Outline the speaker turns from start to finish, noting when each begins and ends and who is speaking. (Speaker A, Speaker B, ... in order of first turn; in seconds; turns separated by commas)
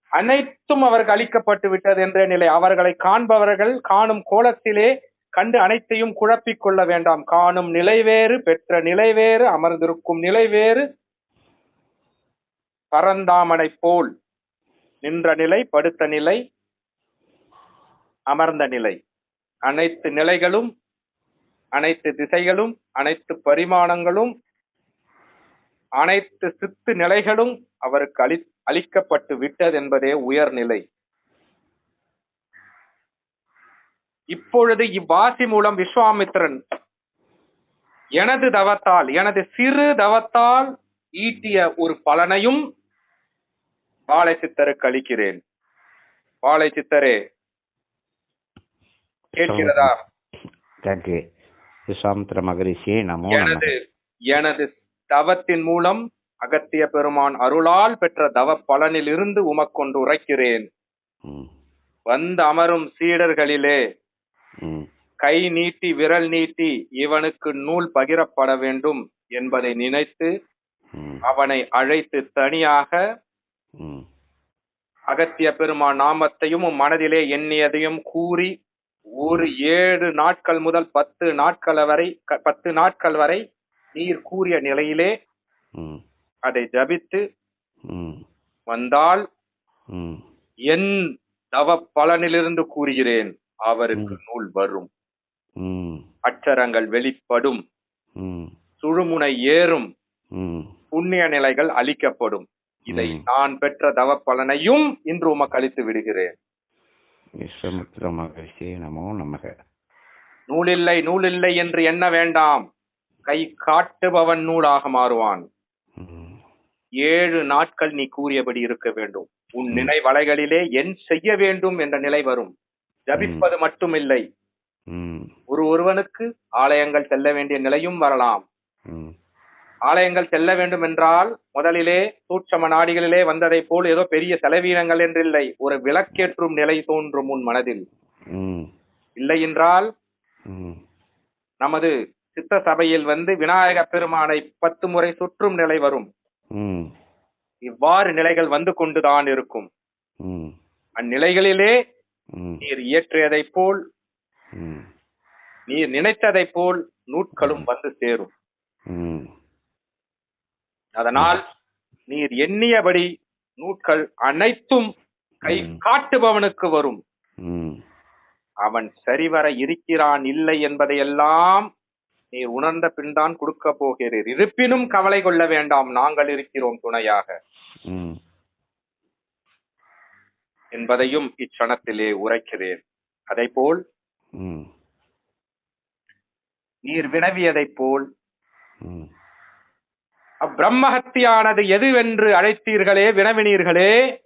Speaker A: 0.2-10.8, Speaker A: 12.9-14.1, Speaker A: 15.0-16.4, Speaker A: 18.3-19.0, Speaker A: 19.6-20.7, Speaker A: 21.7-24.3, Speaker A: 26.0-30.8, Speaker A: 34.3-36.6, Speaker A: 38.2-42.6, Speaker A: 44.1-45.4, Speaker A: 46.4-47.2, Speaker B: 49.4-49.9, Speaker A: 49.4-50.0, Speaker B: 50.8-51.2, Speaker B: 51.9-53.7, Speaker A: 53.3-53.7, Speaker A: 54.3-60.6, Speaker A: 62.1-63.8, Speaker A: 65.2-70.3, Speaker A: 71.2-73.0, Speaker A: 75.1-78.5, Speaker A: 79.2-83.4, Speaker B: 79.2-79.5, Speaker A: 83.9-85.1, Speaker A: 86.5-87.2, Speaker B: 87.9-88.2, Speaker A: 88.7-89.2, Speaker B: 89.9-90.2, Speaker A: 90.7-91.0, Speaker A: 91.5-94.9, Speaker B: 95.6-96.0, Speaker A: 96.2-97.6, Speaker B: 98.2-98.5, Speaker A: 98.8-99.9, Speaker B: 100.3-100.7, Speaker A: 100.9-106.3, Speaker B: 102.9-103.2, Speaker B: 107.4-109.5, Speaker A: 110.5-112.6, Speaker A: 113.3-115.4, Speaker B: 116.0-116.4, Speaker A: 117.0-122.5, Speaker A: 123.1-124.2, Speaker B: 123.2-123.4, Speaker B: 124.9-125.3, Speaker A: 125.5-128.4, Speaker A: 129.9-137.8, Speaker B: 138.3-138.7, Speaker A: 139.2-139.9, Speaker B: 140.5-140.8, Speaker A: 141.6-146.1, Speaker B: 146.6-146.9, Speaker A: 147.7-149.7, Speaker B: 150.2-150.5, Speaker A: 151.0-151.7, Speaker B: 152.3-152.6, Speaker A: 152.6-153.8, Speaker B: 154.6-154.8, Speaker A: 155.7-158.3, Speaker B: 157.4-157.7, Speaker B: 158.9-159.3, Speaker A: 161.0-161.4, Speaker A: 162.1-163.1, Speaker A: 163.6-164.9, Speaker A: 165.4-167.0, Speaker B: 165.4-165.8, Speaker B: 167.4-167.8, Speaker A: 168.6-171.7, Speaker A: 172.3-177.3, Speaker B: 177.9-178.2, Speaker A: 180.7-183.8, Speaker B: 184.4-184.7, Speaker A: 186.9-188.0, Speaker A: 190.4-193.9